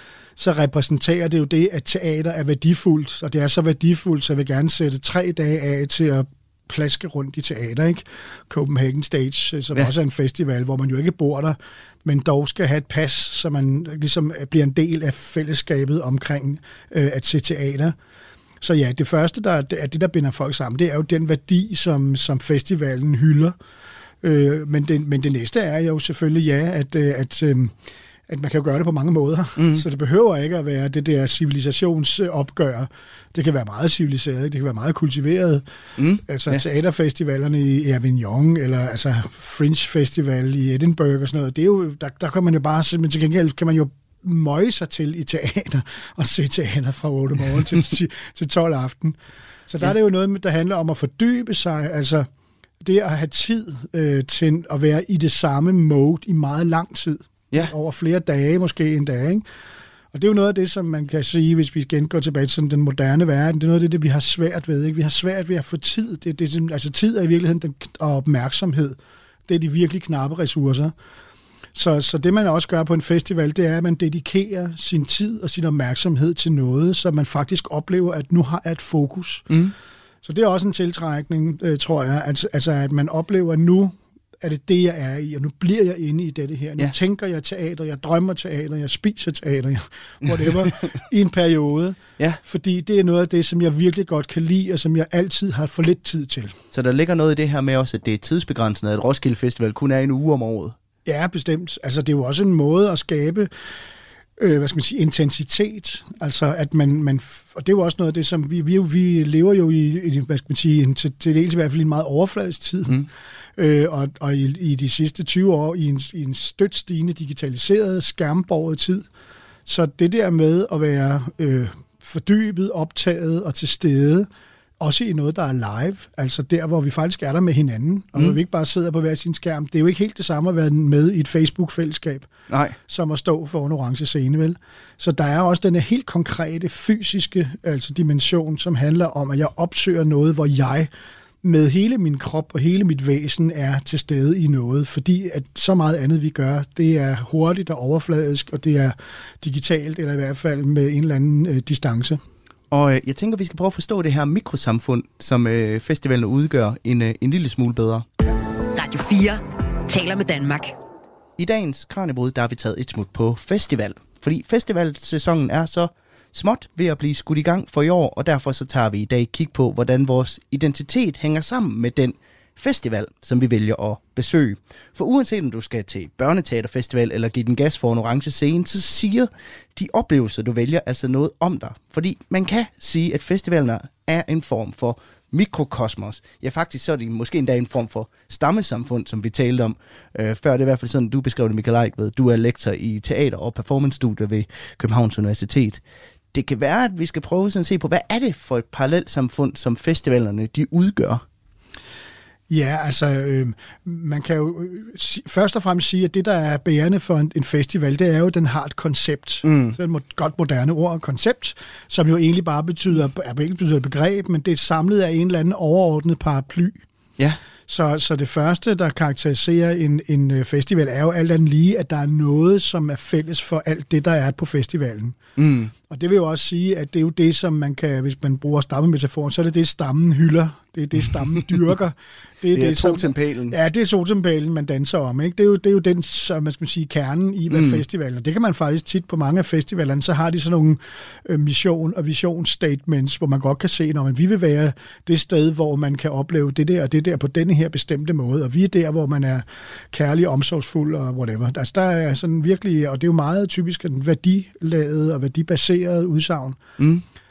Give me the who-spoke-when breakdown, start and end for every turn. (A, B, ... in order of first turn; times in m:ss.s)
0:00.4-0:18.0 A
0:18.6-0:23.6 A
0:24.2-0:27.7 A
0:28.3-0:35.6 A
0:29.6-0:29.8 B
0:36.0-0:36.6 B
0:36.2-0:52.3 A
0:52.8-0:59.4 A
1:00.1-1:10.9 A
1:11.8-1:19.5 A
1:19.5-1:19.7 B
1:20.2-1:36.6 A
1:36.7-1:40.8 B
1:41.0-1:43.5 A
1:44.4-1:53.1 A
1:53.6-1:59.1 A
1:59.7-2:04.3 A
2:04.8-2:12.3 A
2:12.5-2:12.8 B
2:12.9-2:20.9 A
2:21.4-2:32.2 A
2:32.7-2:38.1 B
2:38.7-2:40.7 C
2:41.4-3:15.8 B
3:16.3-3:21.2 B
3:22.5-3:36.8 A
3:29.4-3:29.8 B
3:37.7-3:45.2 A
3:45.4-3:45.7 B
3:45.9-4:16.6 A
3:52.5-3:53.6 B
3:57.5-3:57.8 B
4:16.8-4:17.0 B